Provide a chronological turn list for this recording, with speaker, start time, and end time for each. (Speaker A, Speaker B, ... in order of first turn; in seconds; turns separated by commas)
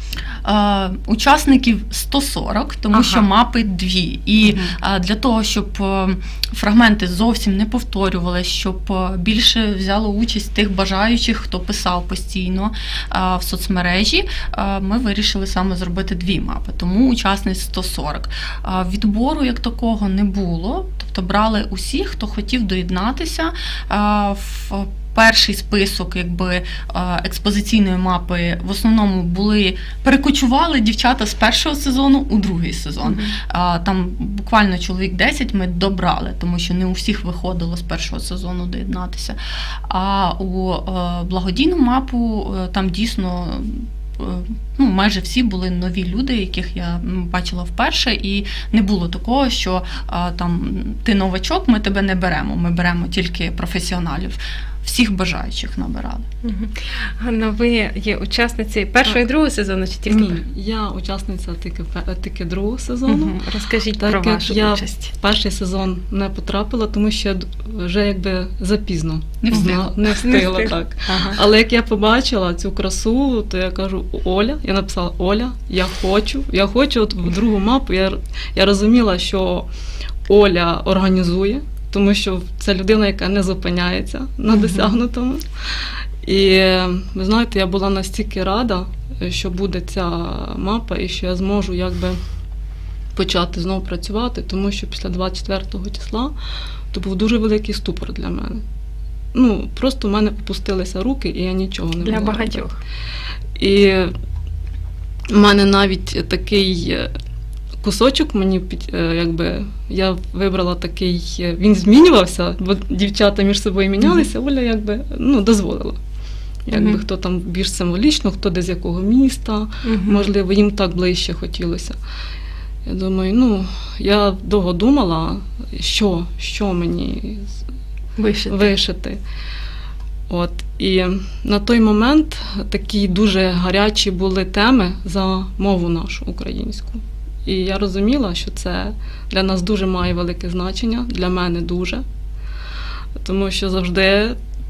Speaker A: 0.4-39.4, Speaker B: 2.9-3.2, Speaker B: 33.0-33.4, Speaker A: 39.9-56.3, Speaker B: 56.4-60.4, Speaker C: 60.1-63.4, Speaker B: 63.1-65.1, Speaker C: 64.0-79.7, Speaker A: 69.4-69.9, Speaker B: 69.5-71.4, Speaker C: 80.3-92.2, Speaker B: 84.5-85.0, Speaker C: 93.1-96.3, Speaker C: 96.9-98.6, Speaker C: 99.3-102.7, Speaker B: 102.0-102.8, Speaker C: 103.6-104.1, Speaker C: 105.3-107.1, Speaker C: 107.8-116.0, Speaker B: 114.0-114.3, Speaker C: 116.7-122.0, Speaker B: 116.7-117.0, Speaker B: 119.8-120.3, Speaker C: 122.9-127.6, Speaker B: 128.2-128.7, Speaker C: 128.5-129.2, Speaker C: 130.3-142.0, Speaker C: 143.2-144.4